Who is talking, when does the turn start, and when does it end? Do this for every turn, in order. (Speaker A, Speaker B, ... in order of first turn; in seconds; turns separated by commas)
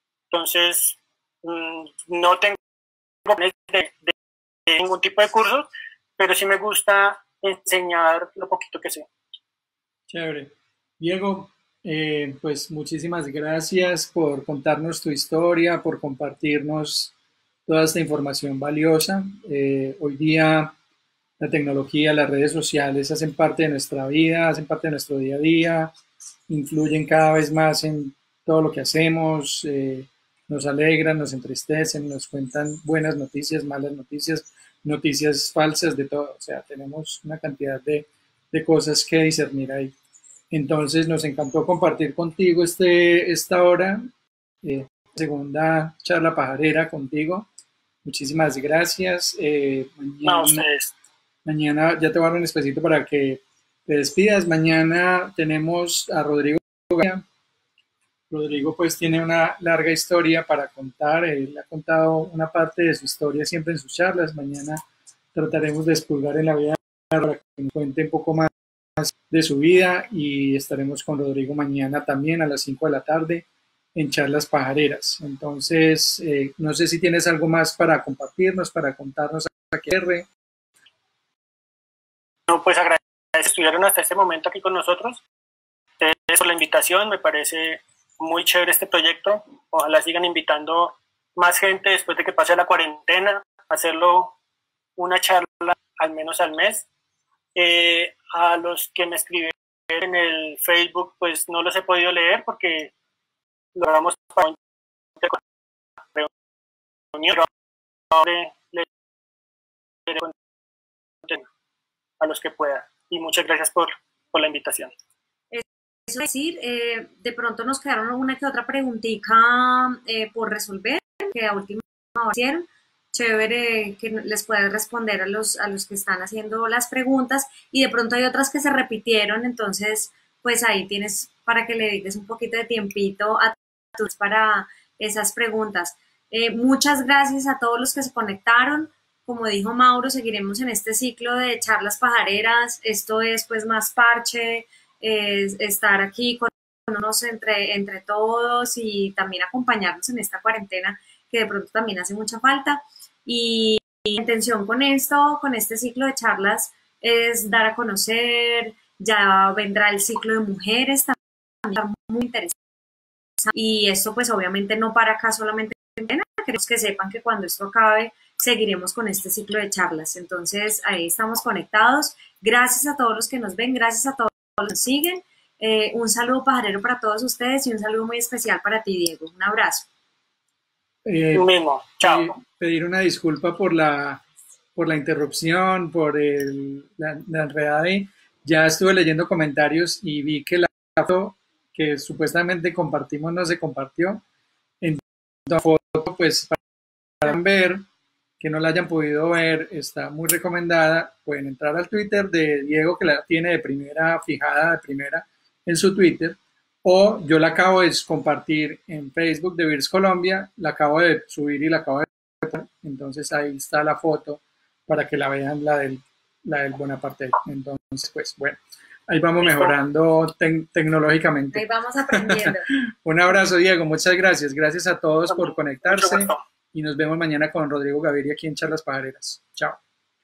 Speaker A: 0.3-2.6, Speaker A: 3.2-4.2, Speaker A: 4.7-9.1, Speaker B: 10.1-17.1, Speaker B: 17.7-20.7, Speaker B: 21.4-25.9, Speaker B: 26.5-39.9, Speaker B: 40.5-44.1, Speaker B: 44.6-47.5, Speaker B: 48.0-50.6, Speaker A: 50.2-50.9, Speaker B: 51.5-57.2, Speaker B: 58.3-64.8, Speaker B: 65.3-80.3, Speaker A: 82.5-85.2, Speaker A: 86.0-94.3, Speaker A: 95.0-96.9, Speaker A: 97.6-102.9, Speaker A: 103.8-104.6, Speaker A: 107.1-107.5, Speaker A: 108.1-108.9, Speaker A: 110.1-110.4, Speaker A: 112.2-114.9, Speaker C: 115.5-162.6, Speaker C: 163.5-179.9, Speaker B: 181.1-181.5, Speaker A: 181.3-182.3, Speaker B: 182.0-184.2, Speaker B: 184.8-194.2, Speaker B: 194.8-196.6, Speaker B: 197.2-197.8, Speaker B: 198.4-229.8, Speaker A: 219.4-219.7, Speaker C: 221.5-222.7, Speaker A: 225.3-226.4